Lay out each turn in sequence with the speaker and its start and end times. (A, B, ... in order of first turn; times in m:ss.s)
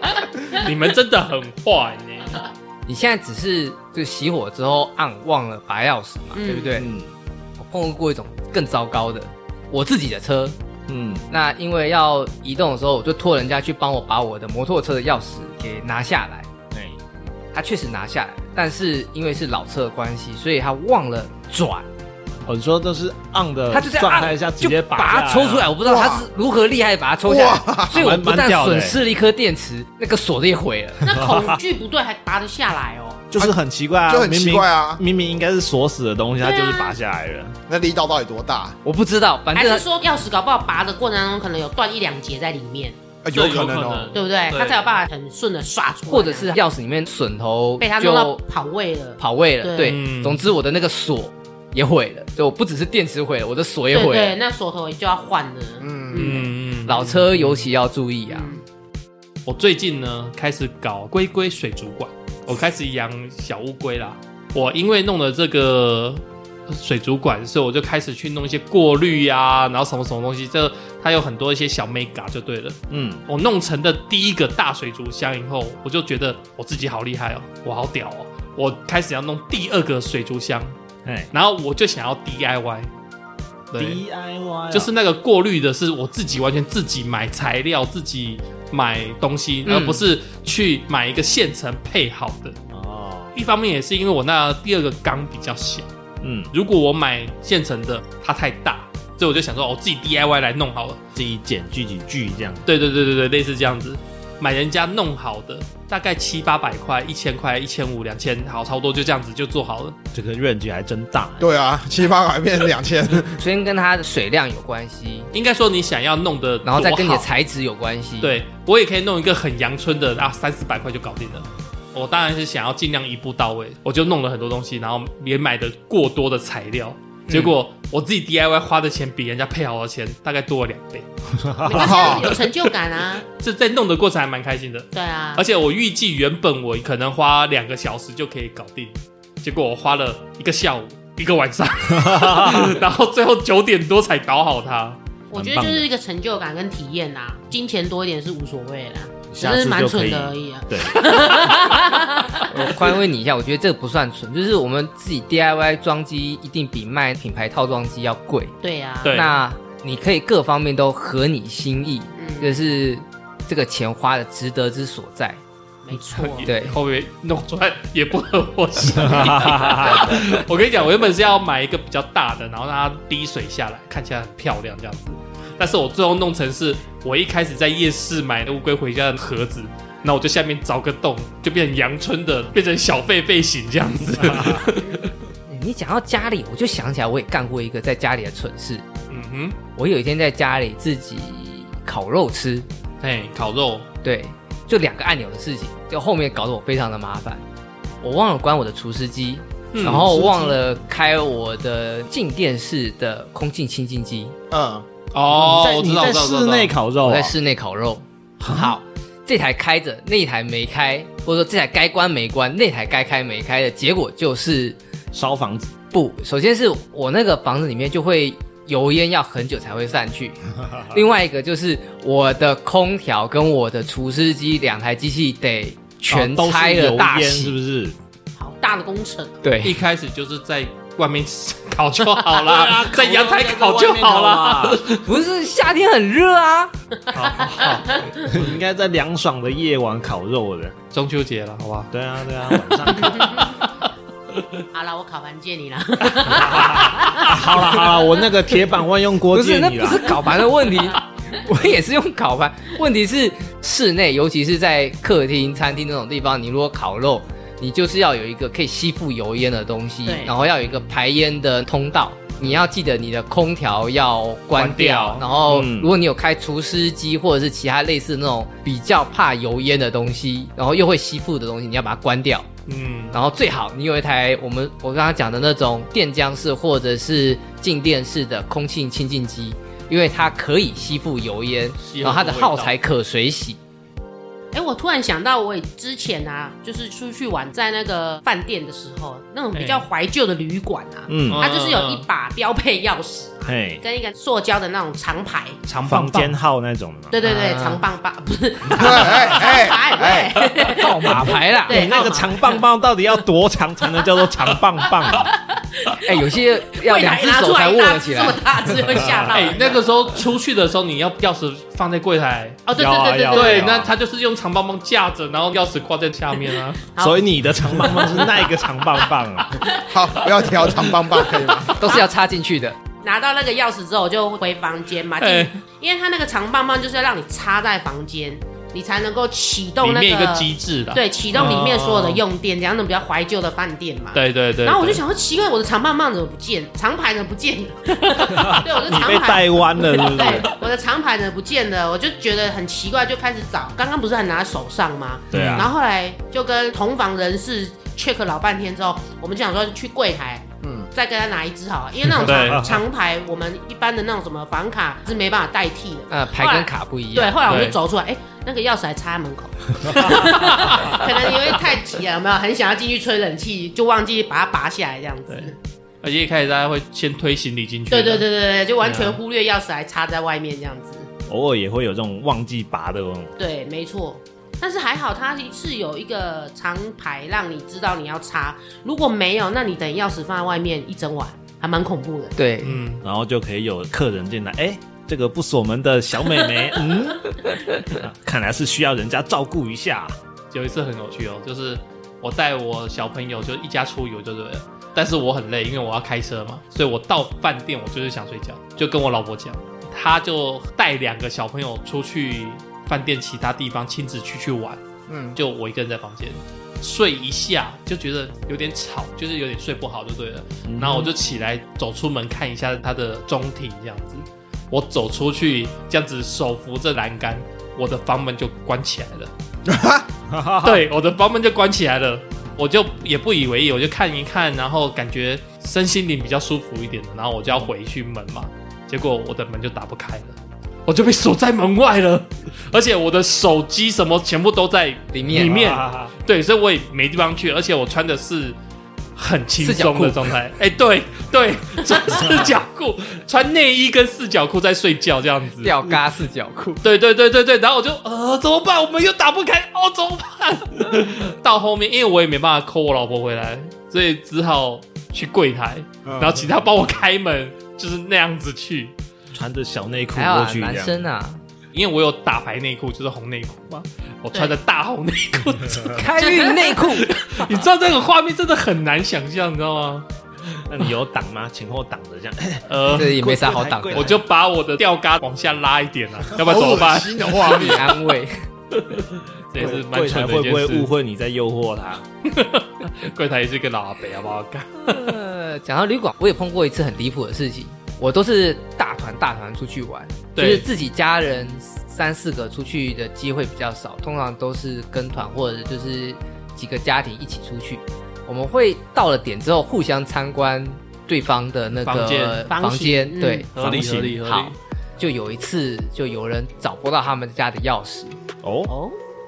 0:00.6-0:02.4 A
0:02.9-0:06.9 B
0:06.3-0:06.7 C
0:06.8-0:07.1 D
0:07.6-0:10.6 B
0:10.9-0:11.2 D
0:11.3-0:16.5 B
0:16.7-0:17.0 D
0:17.5-0:21.9 B
0:22.5-0:25.8 D
0:23.7-0:31.1 B
0:25.8-0:26.3 E
0:27.3-0:28.0 E
0:27.9-0:29.0 D
0:31.0-0:33.3 C
0:31.1-0:31.6 D
0:33.3-0:37.6 D
0:34.1-0:35.0 E
0:36.4-0:37.0 C
0:37.7-0:38.8 E
0:38.8-0:39.8 B
0:39.6-0:43.0 C
0:43.2-0:44.2 E
0:43.3-0:45.0 A
0:44.1-0:46.6 C
0:46.1-0:48.4 B
0:47.8-0:50.0 C
0:49.2-0:54.4 B
0:49.8-0:50.4 A
0:53.9-0:56.5 C
0:55.8-0:56.5 E
0:56.1-0:57.7 A
0:56.9-0:58.6 B
0:58.3-0:58.6 C
0:59.5-1:20.7 A
1:12.9-1:13.2 D
1:21.0-1:21.3 D
1:21.3-1:22.9 A
1:23.7-1:24.0 A
1:23.8-1:24.9 D
1:24.7-1:32.6 A
1:29.7-1:30.0 B
1:32.7-1:33.4 D
1:33.4-1:35.9 A
1:36.2-1:36.5 D
1:36.5-1:41.0 A
1:41.2-1:42.7 D
1:42.7-1:50.0 A
1:50.1-1:51.5 D
1:51.4-1:53.4 E
1:53.4-1:55.3 B
1:55.3-1:57.3 A
1:56.6-1:58.3 B
1:58.2-2:11.1 A
2:07.3-2:07.5 B
2:11.4-2:12.2 D
2:11.6-2:13.2 C
2:11.7-2:12.6 A
2:13.3-2:25.0 A
2:14.9-2:15.4 C
2:21.9-2:22.7 D
2:25.3-2:32.8 C
2:25.3-2:25.9 D
2:29.3-2:31.6 D
2:32.5-2:38.6 B
2:38.6-2:39.1 C
2:39.0-2:39.4 A
2:39.1-2:45.4 B
2:42.2-2:42.6 C
2:45.8-2:46.5 C
2:45.9-3:05.1 A
2:46.4-2:46.8 B
2:48.9-2:50.1 D
3:05.5-3:08.8 B
3:09.1-3:09.6 A
3:09.8-3:12.7 B
3:13.0-3:13.9 A
3:14.0-3:17.4 B
3:18.0-3:24.4 B
3:19.7-3:20.1 A
3:19.9-3:20.5 D
3:20.1-3:20.6 E
3:24.5-3:24.9 E
3:25.1-3:26.8 A
3:25.3-3:27.3 D
3:27.0-3:34.8 B
3:28.4-3:28.8 D
3:35.1-3:35.7 D
3:35.9-3:47.6 B
3:46.1-3:48.0 D
3:48.4-3:49.4 C
3:49.4-3:49.8 B
3:49.6-3:55.0 A
3:52.4-3:55.0 D
3:55.0-3:56.7 B
3:57.1-3:58.2 C
3:57.1-3:58.3 A
3:58.2-4:00.8 D
4:00.9-4:01.9 A
4:01.9-4:03.6 D
4:02.9-4:03.6 C
4:04.7-4:08.2 C
4:06.2-4:10.2 D
4:09.3-4:32.5 B
4:10.7-4:11.0 C
4:20.1-4:20.3 C
4:24.5-4:25.2 A
4:25.2-4:25.6 C
4:25.5-4:25.9 D
4:32.7-4:33.2 A
4:33.1-4:43.6 B
4:41.8-4:42.7 A
4:44.5-4:55.6 C
4:49.5-4:49.8 A
4:51.1-4:51.4 D
4:51.3-4:52.1 A
4:53.5-4:53.8 D
4:55.7-4:57.2 D
4:55.7-4:56.3 A
4:57.1-5:02.6 C
4:57.2-4:57.8 B
4:58.7-5:00.3 E
5:00.7-5:01.9 B
5:01.7-5:05.3 D
5:05.0-5:06.2 C
5:06.0-5:08.7 B
5:06.8-5:09.8 C
5:09.0-5:09.4 D
5:09.2-5:12.6 A
5:12.7-5:13.7 C
5:12.8-5:13.9 D
5:13.3-5:16.9 A
5:17.0-5:22.0 C
5:17.0-5:19.6 D
5:19.9-5:21.8 E
5:21.8-5:22.8 B
5:23.0-6:05.6 C
5:25.2-5:25.6 A
5:29.8-5:32.2 A
5:31.3-5:32.2 D
5:34.1-5:35.0 A
5:38.3-5:40.5 D
5:39.8-5:40.6 A
5:45.3-5:45.7 D
5:45.4-5:45.7 A
5:50.6-5:50.9 E
5:52.2-5:52.8 A
5:52.3-5:52.7 D
5:56.1-5:57.4 B
5:57.5-5:57.8 A
5:59.9-6:01.5 A
6:05.3-6:08.3 A
6:07.9-6:11.1 C
6:08.8-6:09.2 A
6:11.3-6:13.4 D
6:13.4-6:22.4 C
6:22.4-6:22.8 B
6:22.6-6:23.0 A
6:23.0-6:30.2 D
6:30.5-6:44.8 A
6:45.1-6:45.4 E
6:45.4-6:59.3 A
6:50.7-6:51.1 D
6:59.7-7:00.1 E
7:00.3-7:00.8 D
7:00.6-7:10.4 A
7:10.9-7:18.6 A
7:15.1-7:15.6 B
7:15.3-7:16.1 D
7:19.2-7:25.8 A
7:19.6-7:20.3 B
7:25.6-7:26.8 B
7:26.8-7:38.9 A
7:36.1-7:36.4 E
7:39.3-7:41.1 D
7:40.1-7:41.4 B
7:41.7-7:50.1 A
7:45.9-7:47.6 B
7:50.5-7:54.2 D
7:52.7-7:53.1 A
7:52.9-7:54.1 B
7:53.9-7:57.9 A
7:56.4-7:57.8 E
7:57.4-7:58.4 B
7:59.5-8:00.9 A
7:59.6-8:02.0 D
8:02.2-8:05.2 A
8:04.8-8:23.5 B
8:10.4-8:10.7 A
8:21.8-8:22.5 A
8:22.5-8:23.5 C
8:23.6-8:24.6 A
8:23.6-8:24.2 D
8:24.2-8:28.2 B
8:28.4-8:28.7 D
8:28.7-8:29.0 C